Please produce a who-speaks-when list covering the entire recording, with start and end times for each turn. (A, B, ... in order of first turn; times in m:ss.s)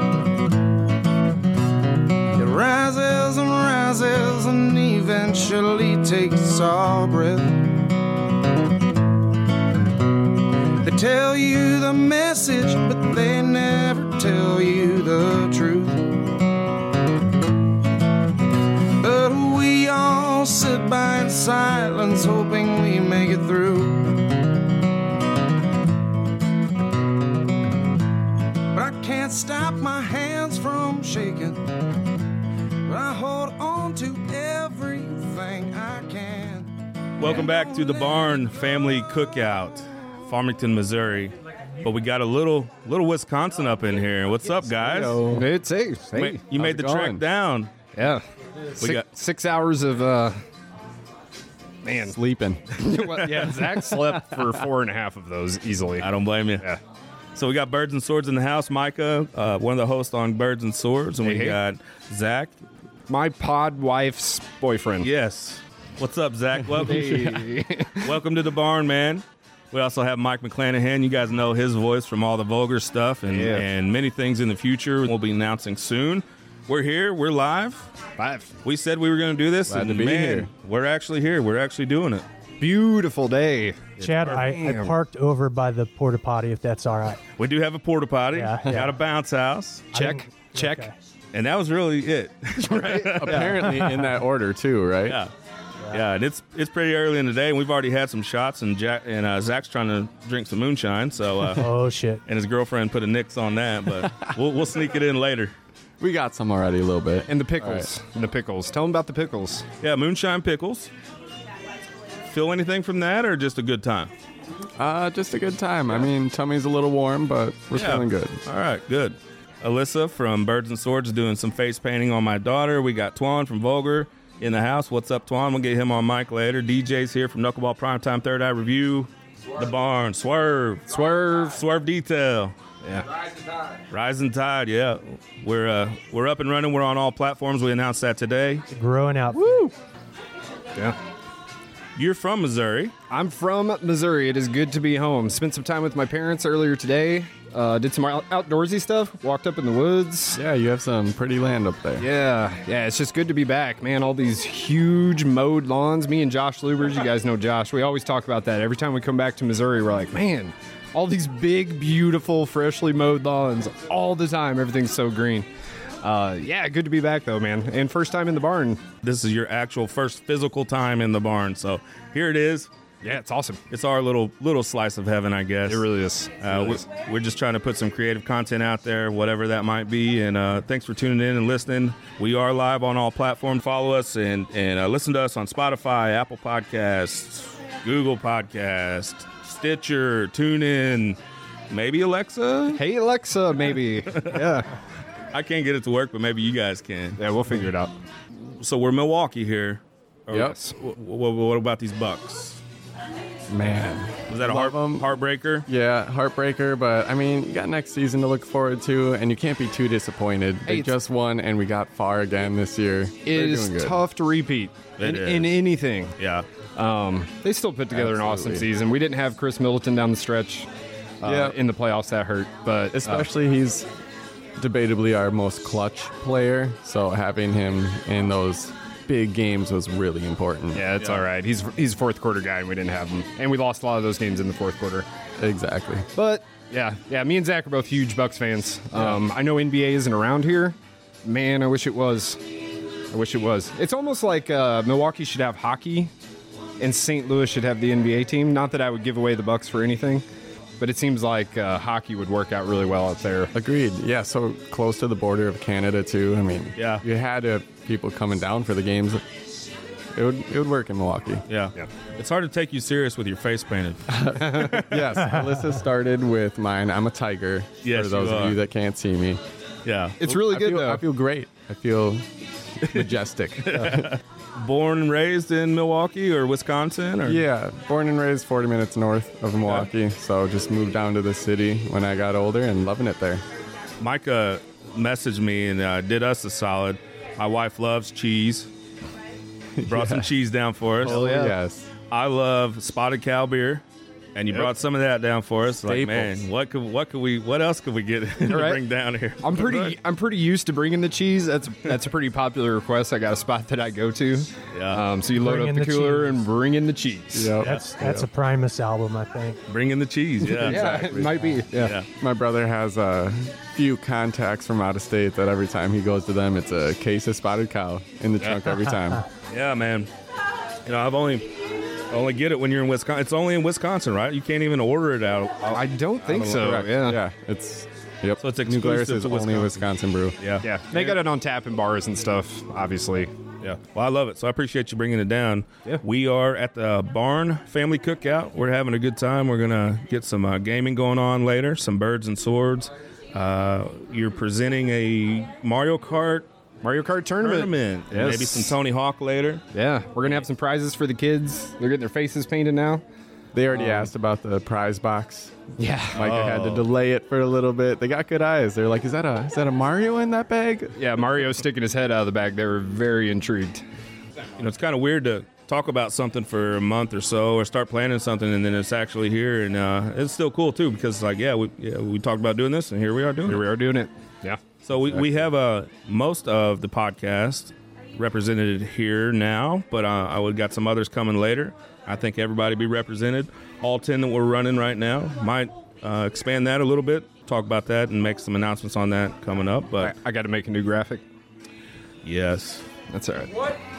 0:02.3-0:07.6 A
0:10.8-0:16.1 A
0:19.0-0:24.2 A
0:28.7-0:31.7 A
0:32.8-0:36.8 A
0:37.2-0:45.4 B
0:44.7-0:45.4 C
0:45.3-0:47.1 D
0:46.1-0:47.7 B
0:46.9-0:47.2 C
0:47.9-0:48.2 D
0:48.8-0:50.4 D
0:48.8-0:49.1 B
0:51.8-0:52.2 D
0:52.1-0:52.7 C
0:52.7-0:56.1 D
0:53.0-0:54.1 B
0:56.0-0:56.7 B
0:57.3-1:02.6 B
1:01.2-1:01.6 D
1:03.1-1:05.1 D
1:05.0-1:07.4 B
1:06.8-1:08.1 D
1:08.0-1:17.9 B
1:13.2-1:13.7 D
1:18.2-1:18.5 D
1:18.6-1:22.2 B
1:19.7-1:20.5 C
1:22.6-1:24.9 D
1:24.0-1:27.2 E
1:27.4-1:30.0 B
1:28.3-1:29.0 E
1:29.9-1:30.9 D
1:29.9-1:30.9 E
1:31.3-1:33.8 B
1:32.6-1:33.6 D
1:33.2-1:35.2 C
1:33.6-1:34.0 E
1:35.1-1:35.3 B
1:35.9-1:41.7 B
1:41.5-1:42.2 E
1:42.2-1:45.5 B
1:46.0-1:47.9 C
1:47.3-1:49.6 D
1:49.8-1:50.9 B
1:52.3-1:54.1 B
1:54.8-1:58.4 C
1:57.7-2:12.5 B
2:10.9-2:11.6 D
2:13.9-2:18.6 B
2:18.7-2:19.6 E
2:19.3-2:19.7 D
2:22.0-2:22.9 B
2:23.1-2:30.4 D
2:30.3-2:32.1 C
2:32.0-2:45.5 D
2:46.0-2:48.8 D
2:49.0-2:52.7 B
2:53.0-2:53.6 D
2:53.7-2:55.9 B
2:55.6-2:56.8 D
2:56.4-3:11.2 B
3:11.7-3:12.8 B
3:12.7-3:14.7 D
3:14.0-3:14.5 B
3:15.3-3:17.2 B
3:17.2-3:17.9 D
3:18.3-3:22.6 B
3:20.3-3:20.8 D
3:23.5-3:25.1 C
3:24.3-3:25.7 B
3:25.7-3:34.0 C
3:30.7-3:30.9 D
3:33.2-3:36.2 D
3:35.0-3:36.5 B
3:36.7-3:40.7 D
3:37.9-3:38.7 C
3:41.2-3:43.3 D
3:41.2-3:41.6 C
3:42.9-3:43.9 C
3:44.6-3:50.9 C
3:50.7-3:55.1 D
3:55.4-3:56.1 C
3:56.1-4:02.4 D
4:03.1-4:06.1 D
4:06.8-4:10.2 D
4:10.8-4:13.5 D
4:13.5-4:19.2 C
4:16.7-4:17.0 B
4:20.1-4:21.4 C
4:21.5-4:25.2 B
4:24.1-4:29.4 C
4:24.4-4:24.8 D
4:27.8-4:28.6 B
4:29.8-4:30.2 B
4:30.2-4:31.0 D
4:30.2-4:34.1 C
4:33.6-4:37.4 B
4:37.2-4:43.4 C
4:44.0-4:48.7 B
4:49.8-4:50.3 C
4:49.8-4:51.4 B
4:51.0-4:51.9 C
4:51.1-4:51.5 D
4:52.1-4:53.8 B
4:54.3-4:59.9 B
4:55.8-4:56.5 C
4:58.4-4:58.8 D
4:59.4-5:07.6 D
5:04.7-5:05.0 B
5:05.4-5:06.4 E
5:07.3-5:08.2 C
5:07.6-5:09.6 E
5:09.7-5:12.1 B
5:10.4-5:12.0 D
5:12.2-5:19.2 C
5:19.5-5:20.1 B
5:20.8-5:21.5 B
5:22.1-5:25.8 B
5:25.7-5:27.2 D
5:26.3-5:30.4 C
5:28.4-5:29.8 B
5:30.4-5:31.2 B
5:30.6-5:33.8 D
5:33.9-5:46.5 B
5:46.8-5:48.8 D
5:47.4-5:49.6 B
5:49.7-5:53.0 D
5:53.5-5:55.6 C
5:53.7-5:54.1 D
5:55.8-5:56.3 D
5:56.1-6:01.0 C
5:56.2-5:56.9 B
6:00.9-6:03.8 D
6:04.6-6:13.6 B
6:13.4-6:14.6 D
6:14.8-6:30.1 B
6:30.0-6:31.2 D
6:32.2-6:32.9 B
6:33.1-6:33.7 D